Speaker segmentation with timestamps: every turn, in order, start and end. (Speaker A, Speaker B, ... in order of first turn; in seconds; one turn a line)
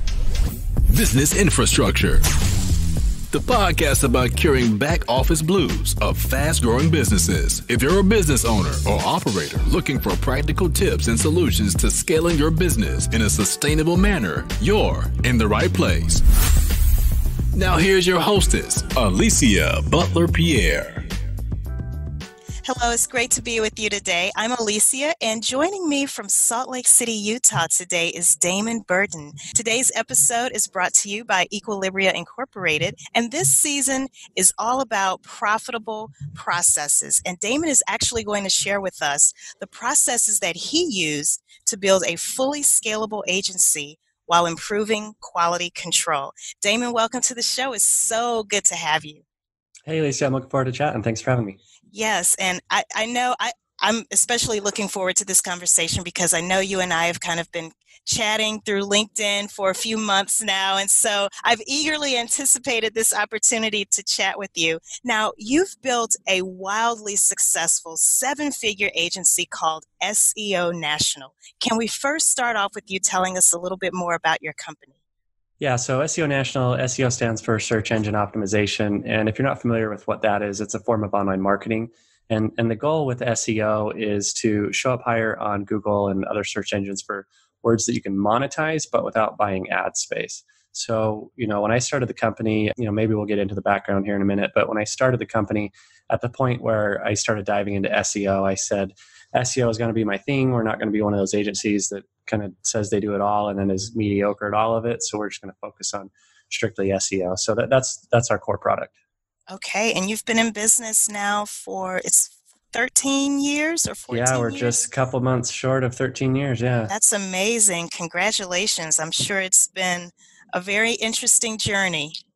Speaker A: 0.9-2.2
Speaker A: 3.3-16.2
Speaker A: 17.5-21.1
Speaker B: 22.6-49.2
Speaker C: 49.9-51.6
Speaker B: 51.9-74.9
Speaker C: 75.6-108.9
Speaker B: 109.5-114.8
Speaker C: 114.1-116.9
Speaker B: 116.9-122.2